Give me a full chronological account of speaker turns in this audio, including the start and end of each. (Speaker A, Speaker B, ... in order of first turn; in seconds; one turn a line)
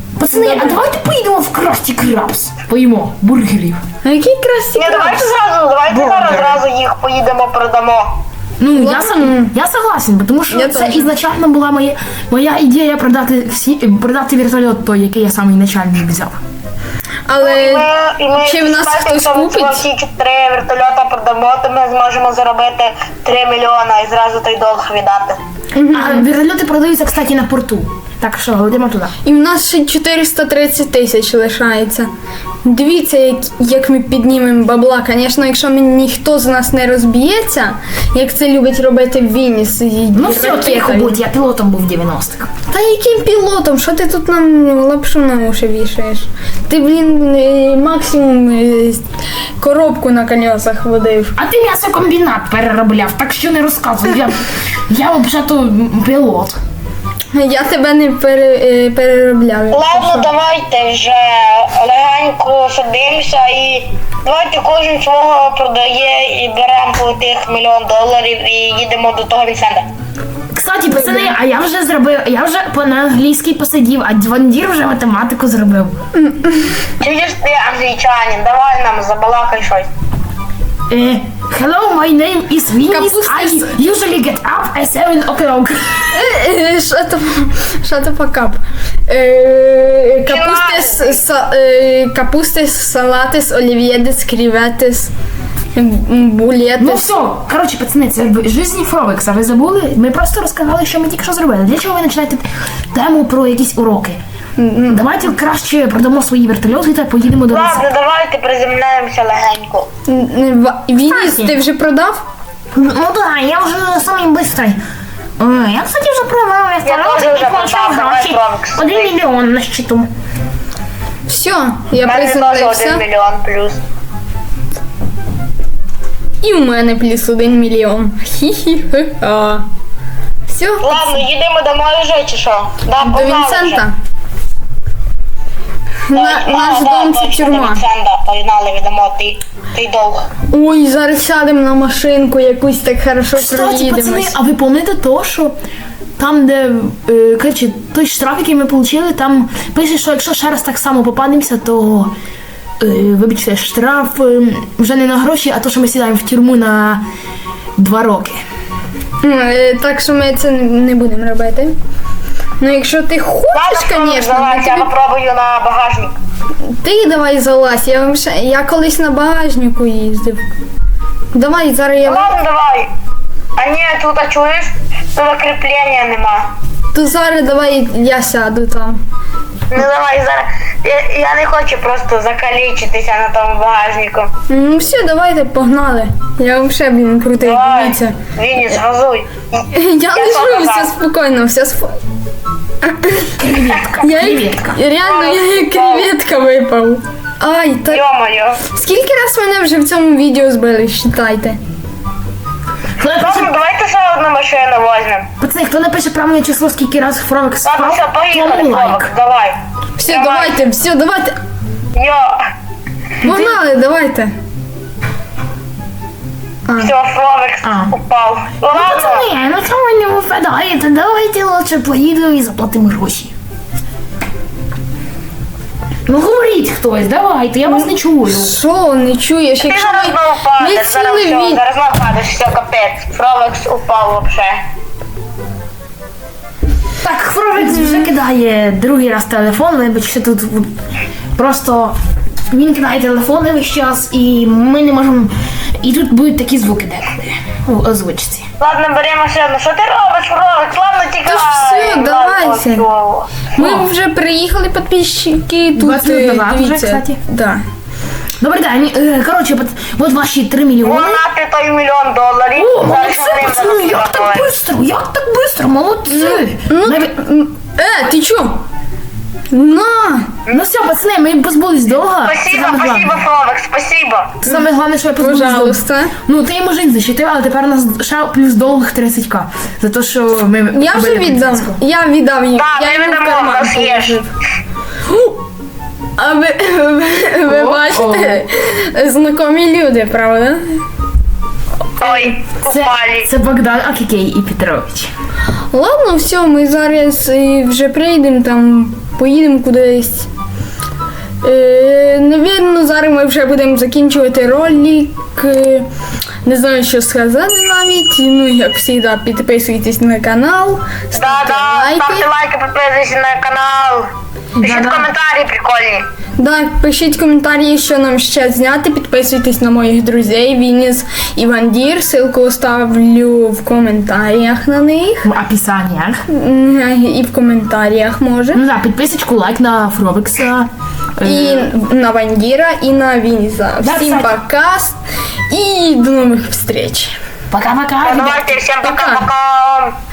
Speaker A: 0.2-3.8
Speaker B: 0.3-0.8
Speaker B: 4.0-5.3
Speaker C: 4.8-8.2
Speaker A: 5.9-6.6
Speaker A: 8.6-16.4
Speaker B: 8.7-9.5
Speaker B: 10.5-11.1
Speaker B: 17.3-17.9
Speaker C: 17.4-25.4
Speaker B: 18.4-19.8
Speaker B: 25.7-26.3
Speaker A: 25.9-29.1
Speaker B: 29.2-32.1
Speaker B: 32.6-41.2
Speaker A: 40.1-42.5
Speaker B: 42.7-49.0
Speaker B: 49.6-51.3
Speaker A: 51.4-56.6
Speaker B: 57.3-60.3
Speaker C: 59.7-69.8
Speaker A: 70.5-75.9
Speaker B: 70.9-71.3
Speaker B: 76.1-76.8
Speaker C: 77.0-79.9
Speaker A: 80.9-86.3
Speaker B: 82.9-83.7
Speaker B: 86.1-95.1
Speaker C: 90.3-91.2
Speaker B: 95.7-97.1
Speaker A: 96.8-104.2
Speaker B: 104.6-105.2
Speaker A: 104.9-107.8
Speaker C: 107.5-109.9
Speaker B: 110.1-112.2
Speaker A: 111.0-111.5
Speaker A: 112.7-114.8
Speaker A: 115.4-120.1
Speaker C: 116.8-119.2
Speaker B: 121.3-123.0
Speaker C: 122.0-123.8
Speaker B: 126.4-129.7
Speaker B: 130.5-131.2
Speaker C: 130.8-133.8
Speaker B: 133.0-133.9
Speaker B: 136.1-137.8
Speaker C: 136.1-140.3
Speaker B: 140.5-144.3
Speaker A: 143.3-145.5
Speaker A: 146.2-152.1
Speaker A: 152.8-157.0
Speaker A: 157.8-158.4
Speaker B: 159.2-161.7
Speaker B: 162.6-164.9
Speaker C: 163.5-166.2
Speaker B: 166.8-170.4
Speaker B: 171.3-172.3
Speaker C: 172.0-172.9
Speaker C: 173.6-176.5
Speaker B: 176.9-179.0
Speaker C: 179.7-184.3
Speaker B: 184.5-188.2
Speaker C: 187.4-190.9
Speaker B: 189.7-192.0
Speaker B: 192.8-193.3
Speaker A: 193.4-194.8
Speaker B: 194.0-198.0
Speaker C: 195.0-196.1
Speaker C: 197.9-198.6
Speaker B: 198.7-201.6
Speaker A: 203.0-203.5
Speaker C: 203.2-205.3
Speaker A: 205.4-209.1
Speaker C: 207.6-210.6
Speaker B: 210.0-211.3
Speaker C: 211.9-212.5
Speaker B: 213.2-214.3
Speaker A: 213.2-213.5
Speaker C: 216.8-219.3
Speaker A: 217.6-217.9
Speaker A: 218.7-223.3
Speaker A: 226.1-228.5
Speaker B: 227.7-231.6
Speaker C: 229.6-234.6
Speaker A: 237.0-240.7
Speaker B: 237.6-238.1
Speaker A: 241.3-242.0
Speaker A: 242.5-248.4
Speaker C: 248.6-253.4
Speaker B: 251.2-252.8
Speaker B: 253.6-257.6
Speaker A: 253.6-253.9
Speaker A: 255.8-257.2
Speaker A: 258.4-261.2
Speaker C: 260.8-264.5
Speaker A: 262.5-267.1
Speaker B: 266.1-268.6
Speaker B: 269.5-270.3
Speaker A: 270.5-273.2
Speaker C: 272.2-274.4
Speaker A: 274.4-281.8
Speaker B: 275.2-276.1
Speaker B: 280.7-284.3
Speaker C: 282.6-284.2
Speaker B: 285.1-285.4
Speaker B: 286.2-290.8
Speaker A: 287.4-288.4
Speaker B: 292.0-292.3
Speaker C: 292.0-293.3
Speaker A: 292.6-295.1
Speaker B: 295.7-300.3
Speaker B: 301.4-305.9
Speaker B: 306.4-312.3
Speaker C: 311.1-314.1
Speaker A: 314.6-315.1
Speaker C: 314.6-316.0
Speaker B: 316.4-325.3
Speaker A: 325.2-326.2
Speaker B: 326.3-328.6
Speaker A: 328.5-331.7
Speaker B: 331.2-335.0
Speaker A: 333.8-334.3
Speaker B: 335.5-337.1
Speaker A: 337.5-338.6
Speaker C: 338.0-339.9
Speaker B: 338.8-339.3